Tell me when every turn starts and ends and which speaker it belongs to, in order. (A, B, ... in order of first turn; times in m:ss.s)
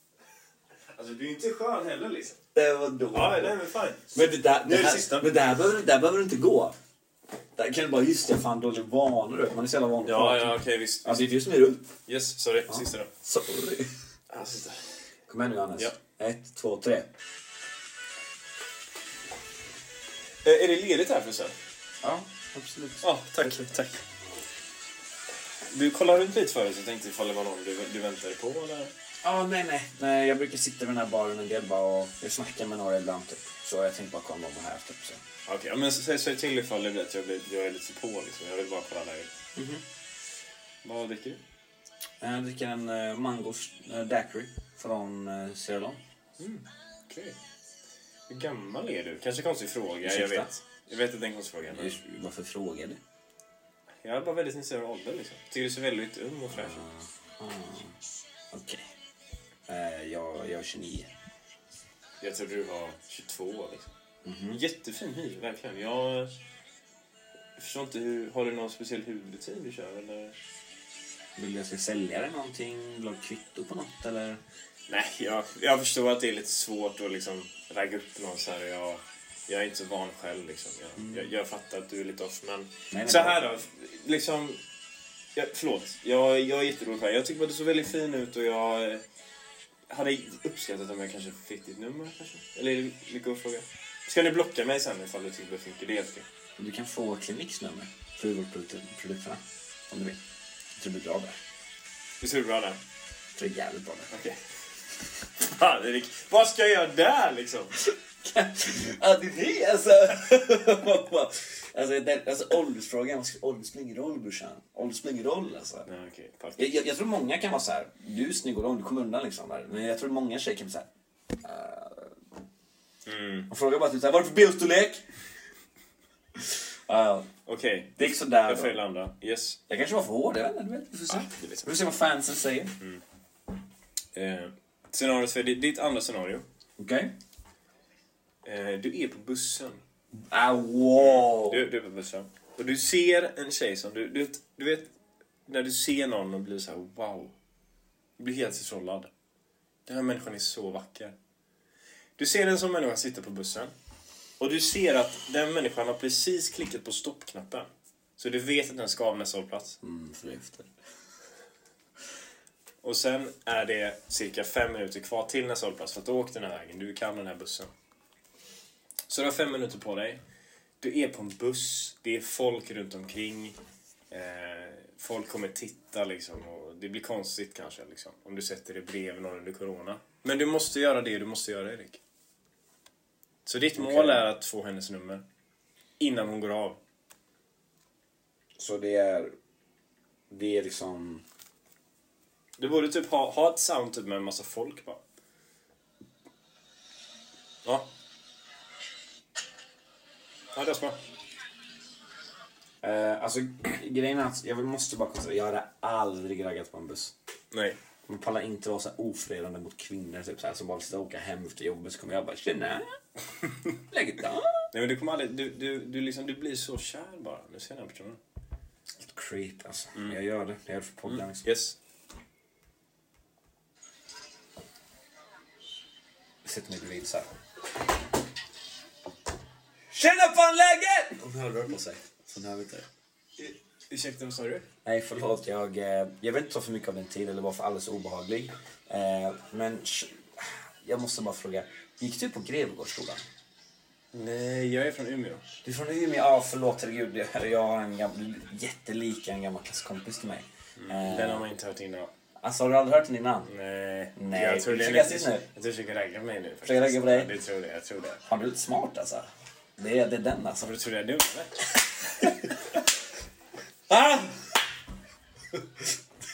0:00.9-0:02.4 A
0:02.5-0:03.6 B
0:03.1-0:05.4 A
0:04.1-0:06.8 B
0:07.6-0:11.9 B
0:10.0-0:11.4 A
0:12.1-0:13.1 A
0:12.7-0:13.9 B
0:14.3-0:14.8 A
0:15.3-0:17.1 B
0:20.4-0:21.6 A
0:22.0-0:23.6 B
0:23.0-0:24.0 A
0:25.7-0:28.9 A
0:29.2-0:35.2 B
0:35.5-0:39.3 A
0:39.6-0:39.8 B
0:40.8-0:41.4 A
0:42.2-0:46.0 B
0:46.4-0:47.4 A
0:48.3-0:52.0 A
0:50.0-0:50.5 B
0:51.7-0:53.0 B
0:54.0-0:56.8 A
0:56.5-0:58.0 B
0:58.5-0:58.9 B
0:59.7-1:01.1 B
1:02.2-1:03.9 A
1:04.2-1:04.6 B
1:04.5-1:06.4 A
1:07.6-1:10.4 A
1:11.4-1:14.4 B
1:14.9-1:24.6 A
1:21.0-1:21.3 B
1:22.9-1:23.5 B
1:25.4-1:29.0 A
1:29.9-1:36.3 A
1:36.6-1:40.2 B
1:40.8-1:41.4 B
1:42.2-1:42.8 A
1:43.4-1:44.1 B
1:44.1-1:44.4 A
1:45.4-1:47.8 A
1:47.8-1:55.9 B
1:55.9-1:56.7 A
1:56.6-2:00.9 B
2:01.4-2:02.2 B
2:03.1-2:03.5 A
2:03.5-2:05.1 B
2:06.4-2:07.3 B
2:07.5-2:09.6 A
2:08.0-2:08.8 B
2:09.7-2:12.8 B
2:11.1-2:11.7 A
2:14.2-2:16.5 A
2:16.8-2:17.1 B
2:18.4-2:19.8 A
2:20.3-2:21.6 B
2:21.0-2:24.9 A
2:25.5-2:27.3 A
2:28.2-2:29.1 A
2:29.9-2:31.2 A
2:32.2-2:33.7 A
2:34.4-2:37.7 A
2:38.2-2:39.8 A
2:39.8-2:40.7 B
2:42.8-2:47.7 A
2:49.1-2:50.2 A
2:50.8-2:53.6 A
2:54.1-3:02.0 A
3:03.4-3:05.2 A
3:03.8-3:04.3 B
3:06.0-3:06.8 A
3:08.6-3:09.3 B
3:10.3-3:11.2 B
3:12.6-3:15.0 A
3:17.6-3:17.9 A
3:20.5-3:21.0 A
3:22.8-3:27.1 B
3:27.5-3:27.8 A
3:28.1-3:33.0 B
3:33.8-3:34.7 B
3:34.7-3:38.2 A
3:39.0-3:41.4 B
3:41.1-3:41.8 A
3:46.4-3:47.3 B
3:49.9-3:52.9 B
3:53.4-3:54.7 A
3:54.8-4:03.2 B
4:04.1-4:05.4 A
4:05.6-4:11.4 B
4:10.8-4:12.1 A
4:12.4-4:13.5 B
4:13.5-4:18.2 A
4:14.2-4:15.5 B
4:16.6-4:17.3 B
4:18.3-4:20.7 B
4:20.6-4:22.4 A
4:22.2-4:22.6 B
4:23.9-4:24.6 B